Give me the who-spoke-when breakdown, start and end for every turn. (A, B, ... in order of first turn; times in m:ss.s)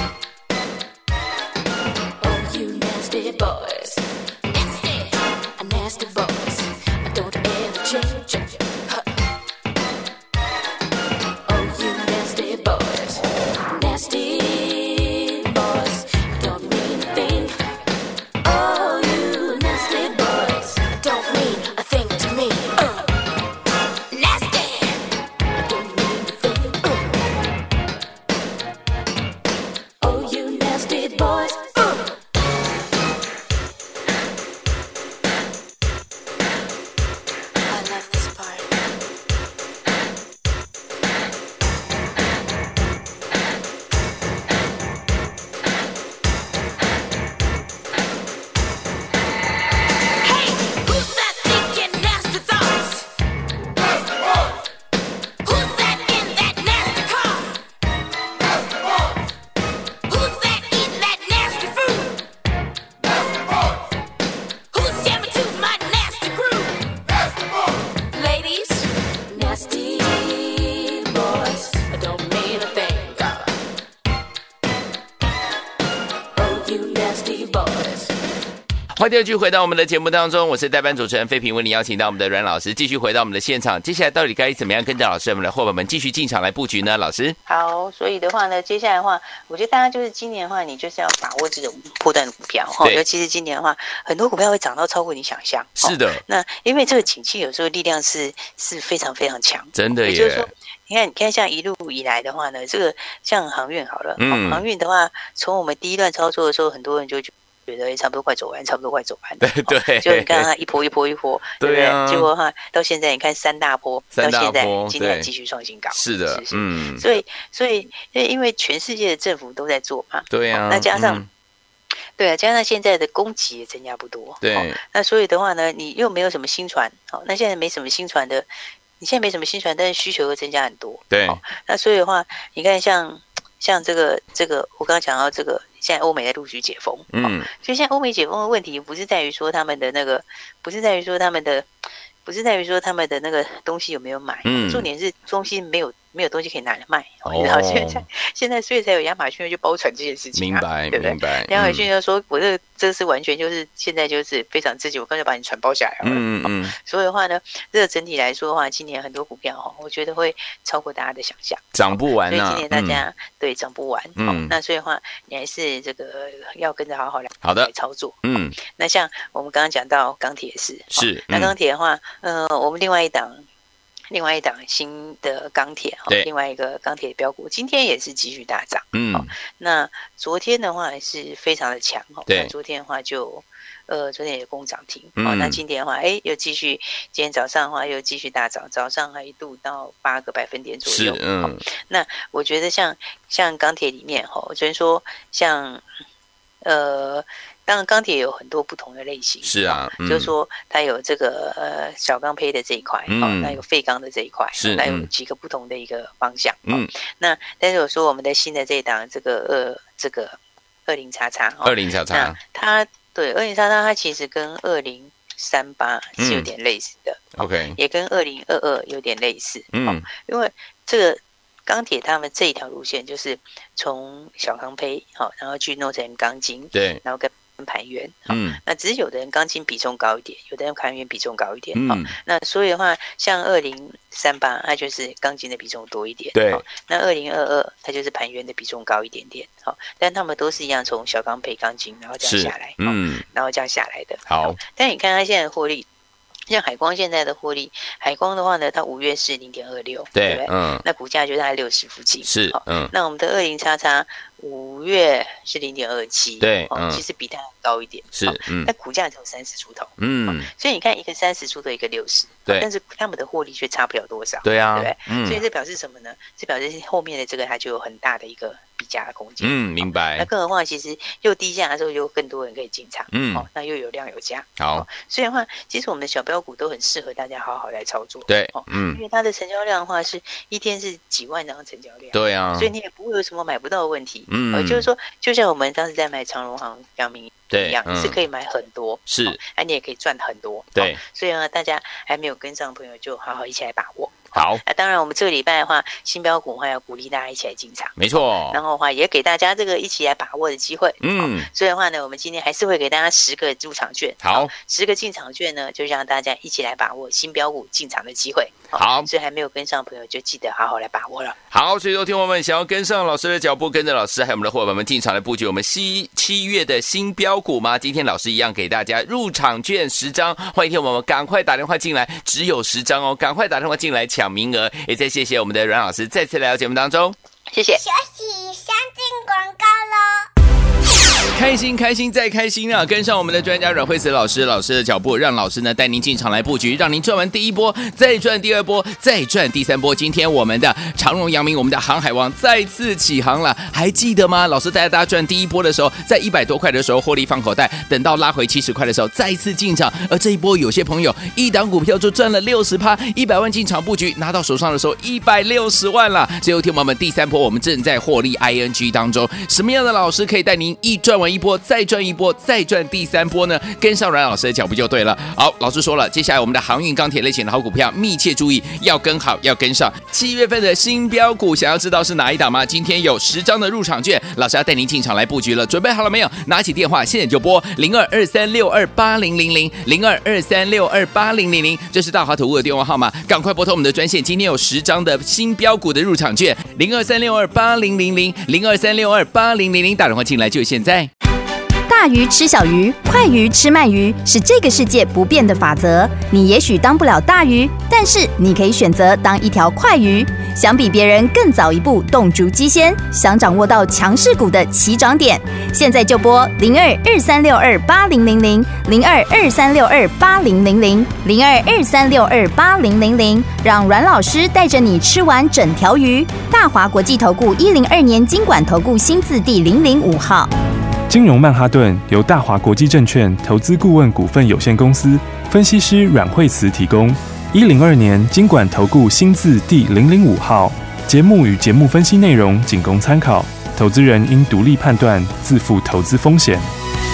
0:02.2-0:09.0 A
0:11.5-0:17.5 A
0:18.4-0:23.1 A
0:24.1-0:25.0 A
0:25.6-0:27.2 A
0:30.0-0:32.0 A
0:37.7-0:38.7 A
0:50.2-0:53.1 A
0:55.4-0:57.6 A
1:00.1-1:02.2 A
1:04.7-1:06.8 A
1:08.1-1:13.6 A
1:16.4-1:18.1 A
1:19.0-1:27.4 B
1:27.5-2:01.2 C
1:35.8-1:36.2 B
1:39.7-1:40.5 B
1:44.2-1:44.6 B
1:49.4-1:50.5 B
1:51.6-1:52.3 B
1:54.1-1:55.3 B
1:55.9-1:57.0 B
2:00.3-2:01.3 B
2:02.2-2:08.5 C
2:04.4-2:04.8 B
2:09.0-2:21.7 C
2:11.1-2:11.4 B
2:17.1-2:17.5 B
2:22.2-2:53.4 C
2:24.4-2:24.9 B
2:27.3-2:28.0 B
2:30.4-2:31.9 B
2:36.0-2:36.7 B
2:41.7-2:43.0 B
2:44.2-2:44.5 B
2:47.4-2:47.7 B
2:48.2-2:48.6 B
2:50.9-2:51.5 B
2:54.1-3:15.8 C
2:58.9-2:59.3 B
3:05.2-3:05.6 B
3:10.9-3:11.6 B
3:16.6-4:05.9 C
3:19.4-3:20.3 B
3:23.1-3:23.6 B
3:24.6-3:25.1 B
3:31.6-3:32.4 B
3:36.2-3:36.5 B
3:37.4-3:37.8 B
3:39.7-3:40.1 B
3:46.7-3:47.0 B
3:48.3-3:48.6 B
3:51.8-3:52.1 B
3:56.4-3:56.6 B
4:02.2-4:03.2 B
4:04.3-4:04.6 B
4:06.5-5:11.4 C
4:10.2-4:10.8 B
4:12.2-4:12.9 B
4:16.4-4:17.0 B
4:18.2-4:18.7 B
4:20.0-4:20.5 B
4:24.4-4:25.4 B
4:29.4-4:30.3 B
4:33.1-4:33.5 B
4:34.6-4:34.9 B
4:38.3-4:39.0 B
4:42.1-4:42.7 B
4:44.3-4:44.9 B
4:47.5-4:48.2 B
4:49.1-4:49.4 B
4:54.3-4:54.6 B
4:58.0-4:58.6 B
5:01.0-5:01.5 B
5:04.2-5:04.5 B
5:08.8-5:09.1 B
5:11.5-5:27.2 B
5:27.5-5:27.8 C
5:27.8-5:30.3 D
5:31.3-6:31.1 B
6:31.9-7:00.5 E
7:01.1-7:16.7 F